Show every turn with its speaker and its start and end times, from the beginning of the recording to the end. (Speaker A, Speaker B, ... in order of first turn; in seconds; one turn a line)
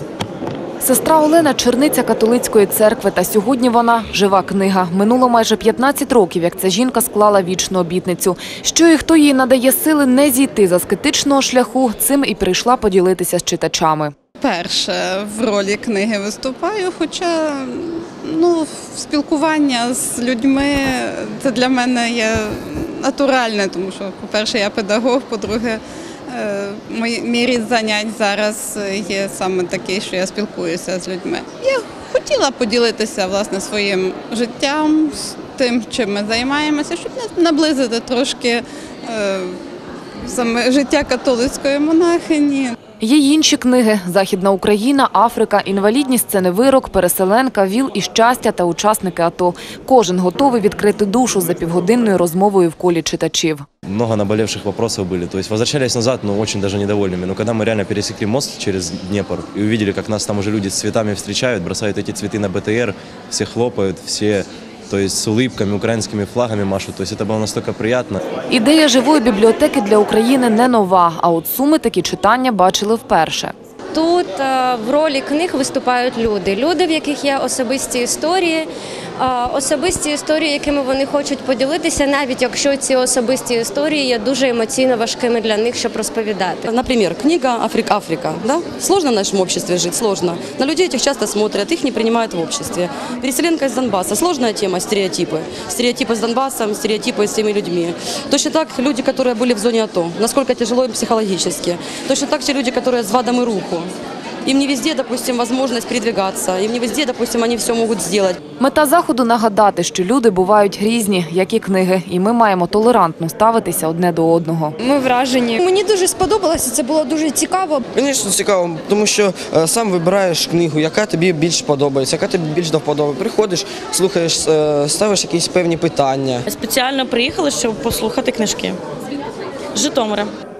Speaker A: 0.8-14.1
Speaker B: 14.4-39.5
Speaker B: 40.2-42.8
Speaker A: 43.0-53.6
Speaker C: 53.9-68.2
Speaker A: 68.5-73.5
Speaker D: 73.9-78.7
Speaker D: 79.2-86.6
Speaker E: 86.7-103.9
Speaker E: 104.4-108.4
Speaker A: 108.6-114.7
Speaker F: 114.8-117.8
Speaker G: 117.9-126.4
Speaker H: 126.5-128.8
Speaker H: 129.7-130.3